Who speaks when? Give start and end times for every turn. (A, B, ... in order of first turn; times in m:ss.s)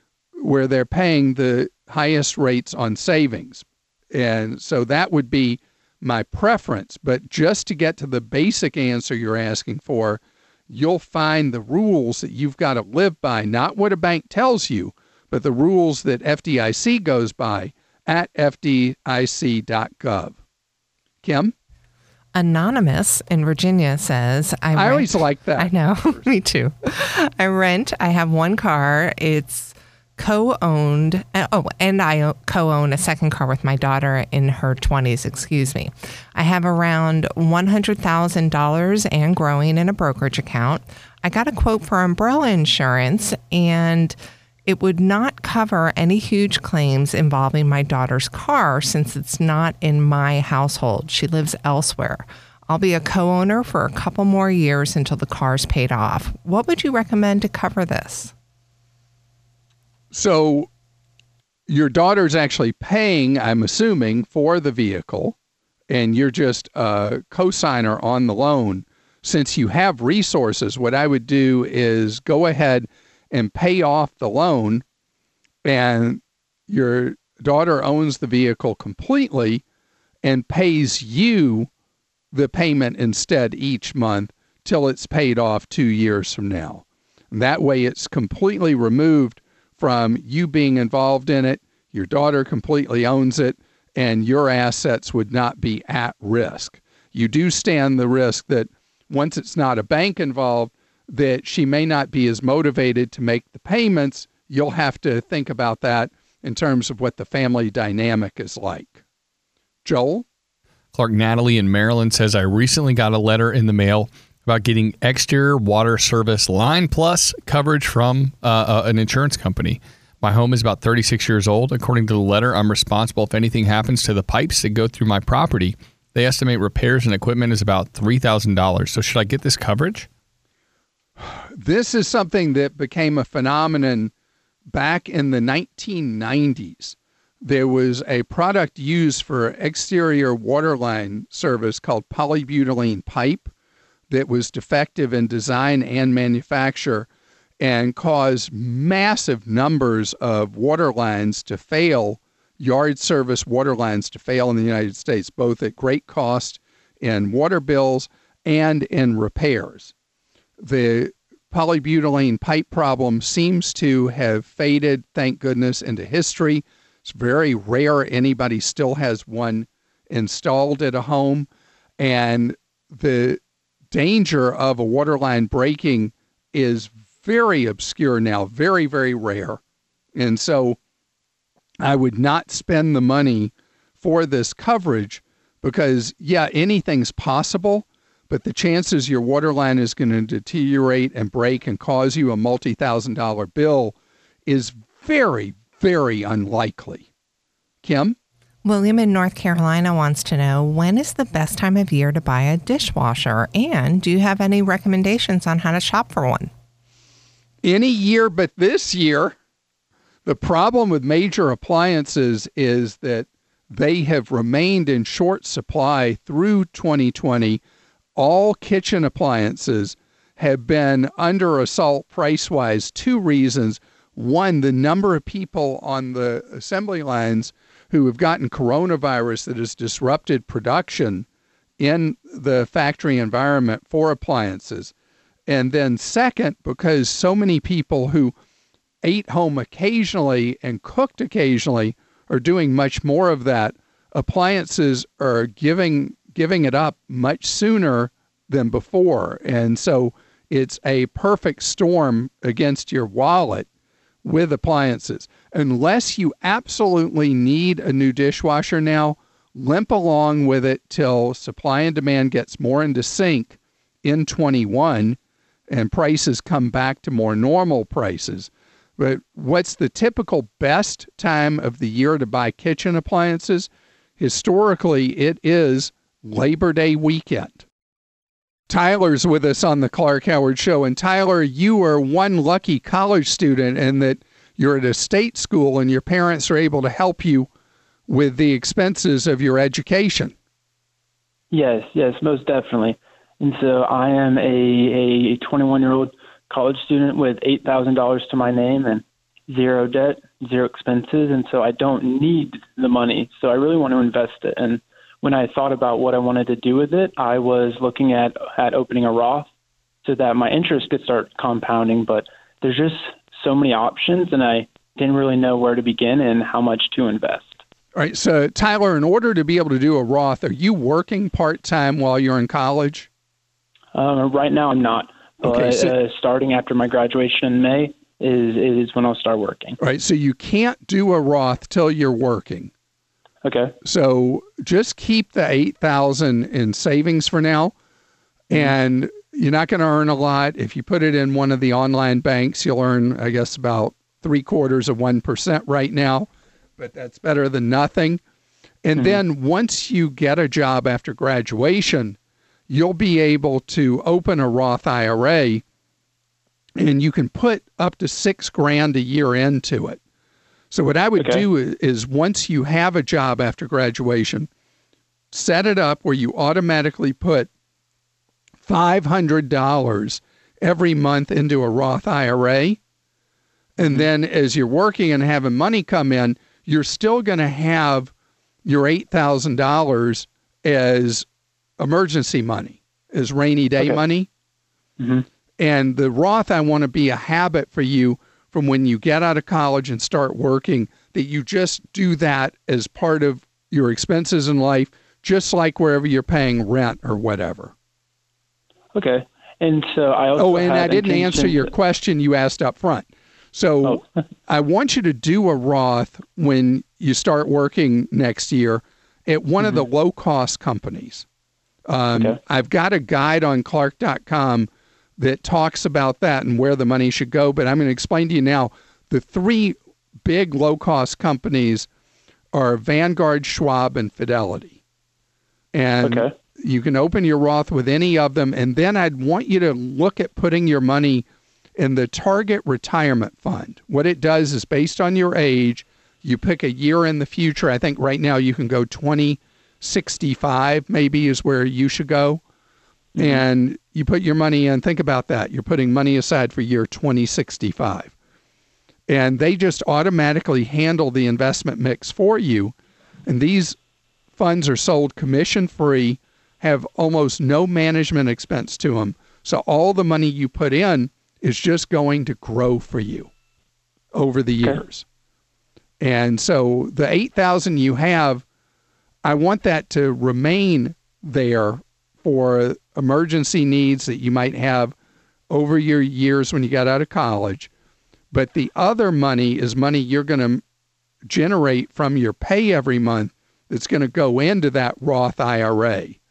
0:00.4-0:20.4 A
0:21.2-0:21.5 A
0:22.3-0:58.3 B
0:24.7-0:25.7 A
1:00.1-1:00.7 A
1:01.7-1:05.4 A
1:05.9-1:14.8 A
1:15.6-1:19.6 A
1:20.2-1:21.7 A
1:22.3-1:49.0 A
1:49.8-1:50.2 A
1:50.9-2:10.1 C
2:11.2-2:14.1 A
2:14.7-2:23.5 A
2:24.1-2:27.1 A
2:27.6-2:39.9 A
2:40.6-2:51.5 A
2:52.0-2:53.4 A
2:53.9-2:59.6 A
3:00.2-3:00.8 A
3:01.8-3:17.1 A
3:17.8-3:18.2 A
3:18.6-3:26.5 B
3:27.6-3:29.4 A
3:30.2-3:37.6 A
3:38.2-3:51.2 A
3:51.8-3:54.9 A
3:55.5-3:58.3 A
3:59.0-4:13.7 A
4:14.2-4:25.2 A
4:25.7-4:37.6 A
4:38.7-4:47.5 A
4:48.1-4:50.3 A
4:51.5-5:09.5 D
5:10.0-5:17.6 D
5:17.9-5:23.1 A
5:23.9-5:29.8 D
5:25.4-5:25.9 A
5:29.8-5:32.7 A
5:33.4-5:33.7 D
5:33.8-5:37.7 A
5:38.5-5:48.2 A
5:48.8-5:52.2 A
5:52.7-5:55.6 A
5:56.8-6:00.0 A
6:00.7-6:04.5 A
6:01.2-6:01.4 D
6:05.3-6:07.5 A
6:08.6-6:12.8 A
6:13.8-6:18.1 A
6:18.6-6:21.2 A
6:21.8-6:24.3 A
6:25.0-6:25.2 D
6:25.6-6:37.7 A
6:38.9-6:41.7 D
6:40.4-6:51.2 A
6:51.9-7:01.9 A
6:52.1-6:52.4 D
7:02.5-7:04.8 A
7:05.7-7:11.2 A
7:06.0-7:06.3 D
7:11.8-7:22.4 A
7:23.2-7:28.1 A
7:29.1-7:32.7 A
7:33.2-7:33.8 A
7:34.4-7:43.3 A
7:44.1-7:45.0 A
7:46.0-7:48.4 A
7:49.2-7:54.9 A
7:55.5-7:57.7 A
7:58.3-8:00.6 A
8:01.3-8:06.2 A